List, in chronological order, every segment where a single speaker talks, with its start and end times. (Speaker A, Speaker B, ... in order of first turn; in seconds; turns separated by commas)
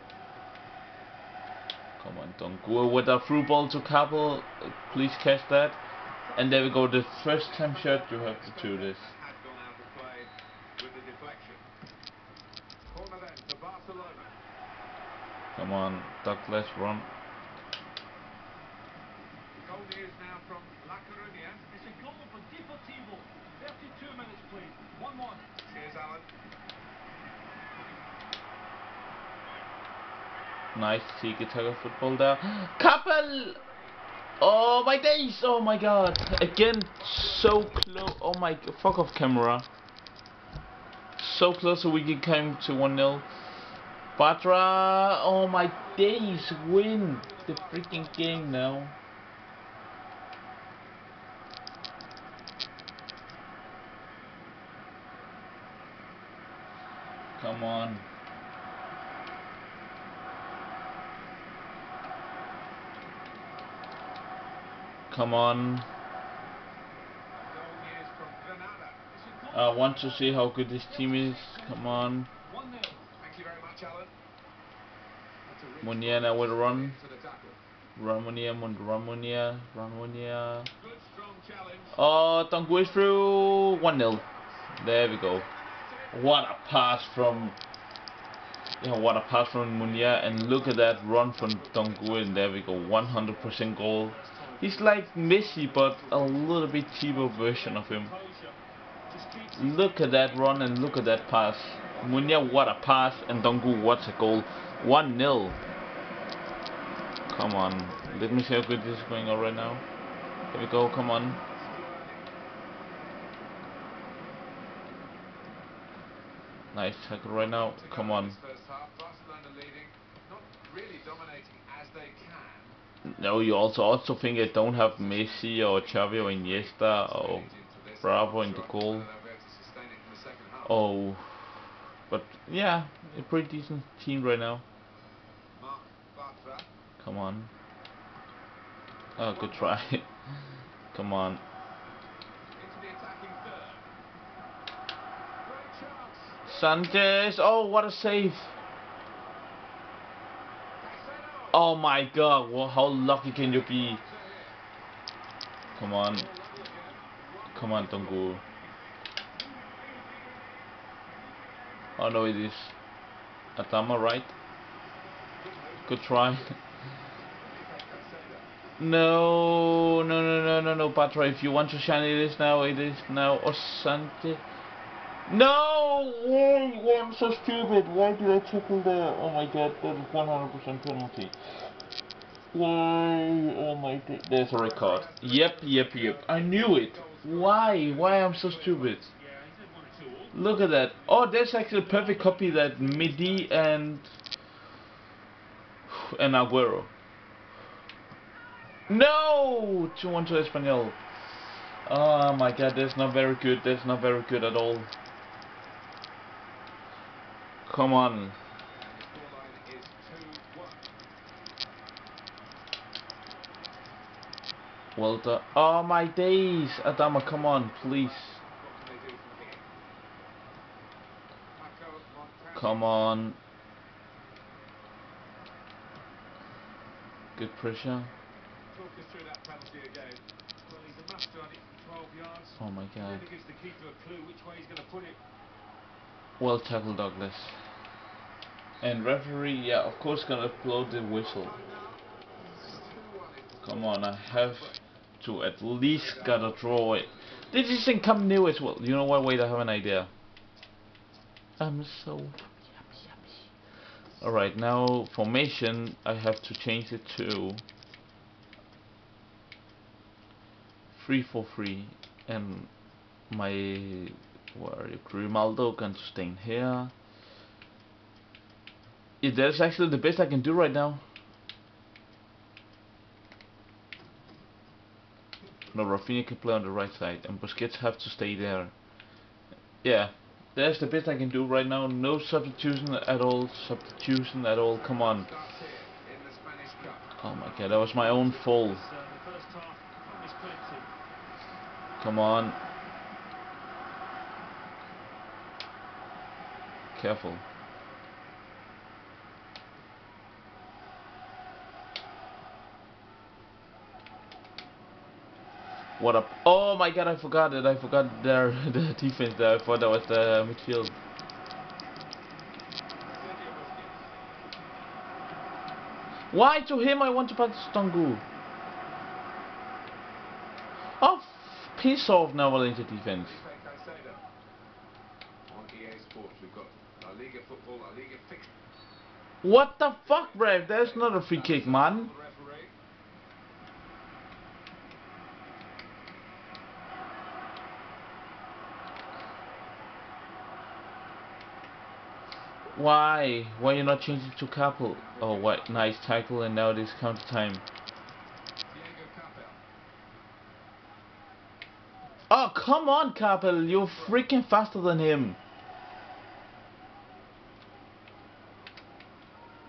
Speaker A: 2.0-5.8, Speaker B: 6.3-11.7, Speaker A: 6.3-9.1, Speaker B: 12.9-14.3, Speaker A: 15.6-17.1, Speaker B: 19.6-21.7, Speaker C: 21.7-25.6, Speaker B: 25.6-26.3, Speaker A: 30.8-33.6, Speaker B: 33.5-34.0, Speaker A: 34.4-39.7, Speaker A: 41.2-43.3, Speaker A: 44.2-48.9, Speaker B: 45.5-48.6, Speaker A: 57.4-58.0, Speaker A: 65.1-65.9, Speaker B: 67.3-69.1, Speaker C: 69.1-73.1, Speaker A: 69.5-72.3, Speaker B: 73.2-74.1, Speaker B: 75.5-77.6, Speaker A: 75.8-77.0, Speaker A: 78.0-80.7, Speaker B: 80.8-82.0, Speaker A: 81.9-85.5, Speaker B: 82.7-84.5, Speaker B: 85.2-87.0, Speaker A: 86.1-87.6, Speaker A: 88.8-98.1, Speaker B: 89.8-93.2, Speaker C: 93.0-98.6, Speaker C: 99.1-101.5, Speaker A: 99.5-105.6, Speaker B: 101.9-102.7, Speaker A: 107.3-109.8, Speaker B: 107.9-108.6, Speaker A: 110.5-111.4, Speaker B: 111.5-112.3, Speaker A: 116.7-118.4, Speaker B: 117.4-122.8, Speaker A: 123.0-127.5, Speaker B: 124.4-130.8, Speaker A: 128.0-129.1, Speaker A: 130.7-131.3, Speaker A: 132.1-134.6, Speaker B: 135.6-136.7, Speaker A: 137.0-137.5, Speaker A: 139.2-140.1, Speaker B: 139.2-139.9, Speaker A: 140.9-141.4, Speaker B: 142.6-143.9, Speaker B: 145.4-147.1, Speaker A: 146.5-148.5, Speaker B: 150.8-151.7, Speaker A: 151.5-154.0, Speaker B: 153.2-154.6, Speaker A: 155.8-156.3, Speaker B: 156.0-158.5, Speaker A: 157.5-158.4, Speaker C: 159.3-162.0, Speaker A: 162.0-162.7, Speaker A: 163.6-164.3, Speaker B: 165.4-166.6, Speaker A: 165.9-166.6, Speaker B: 167.4-168.5, Speaker A: 168.8-174.4, Speaker A: 175.3-181.3, Speaker A: 182.5-189.1, Speaker B: 184.6-189.1, Speaker C: 189.1-193.4, Speaker A: 190.3-194.1, Speaker B: 192.7-193.5, Speaker A: 195.9-196.9, Speaker A: 198.9-201.0, Speaker A: 201.9-204.9, Speaker A: 207.7-208.4, Speaker B: 208.8-210.9, Speaker A: 215.0-218.4, Speaker B: 217.0-219.7, Speaker B: 221.5-223.1, Speaker A: 222.6-223.4, Speaker A: 227.4-228.1, Speaker B: 228.7-230.2, Speaker C: 230.6-235.2, Speaker A: 232.6-233.2, Speaker A: 236.4-237.6, Speaker A: 238.8-241.6, Speaker B: 241.2-244.8, Speaker A: 243.6-250.1, Speaker B: 245.9-248.4, Speaker A: 251.6-253.5, Speaker A: 254.2-257.6, Speaker A: 260.9-262.7, Speaker A: 263.3-266.9, Speaker A: 269.2-271.0, Speaker A: 275.7-278.7, Speaker A: 279.8-285.3, Speaker B: 284.7-288.2, Speaker A: 287.2-288.9, Speaker C: 288.3-290.9, Speaker A: 292.0-292.6, Speaker A: 296.9-297.4, Speaker A: 306.0-310.9, Speaker B: 313.1-314.1, Speaker A: 316.3-318.2, Speaker A: 321.0-323.4, Speaker B: 323.1-324.3, Speaker B: 325.5-328.5, Speaker A: 329.4-332.1, Speaker B: 330.0-332.7, Speaker A: 342.7-347.6, Speaker B: 343.8-344.3, Speaker B: 344.9-346.0, Speaker B: 348.7-349.6, Speaker A: 352.3-355.4, Speaker B: 353.7-354.3